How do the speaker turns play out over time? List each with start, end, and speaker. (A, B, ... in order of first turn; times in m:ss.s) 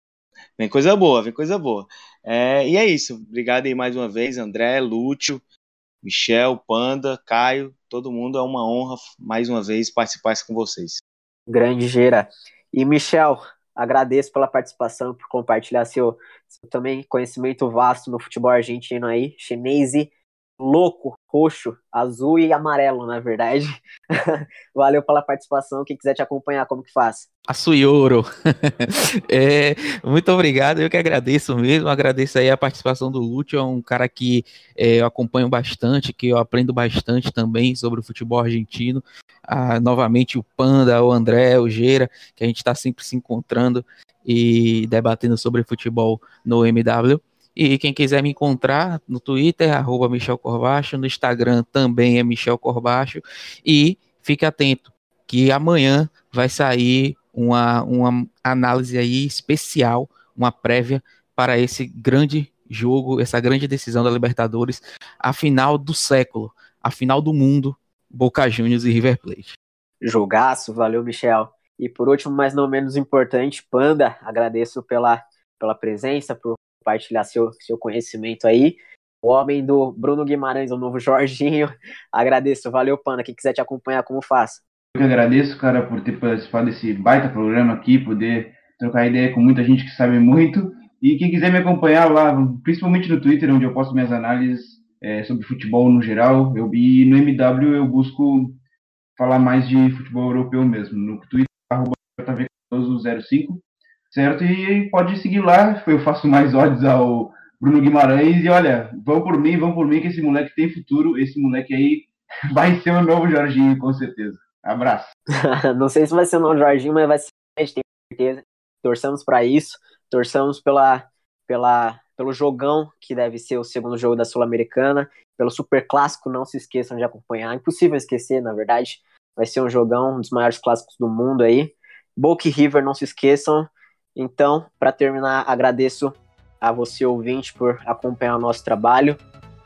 0:00.6-0:05.4 A
0:06.0-0:11.0 A
0:11.5-0:27.3 B
0:27.5-1:09.6 C
1:10.0-1:24.6 B
1:24.9-1:38.6 D
1:39.2-1:55.1 D
1:55.4-2:19.2 B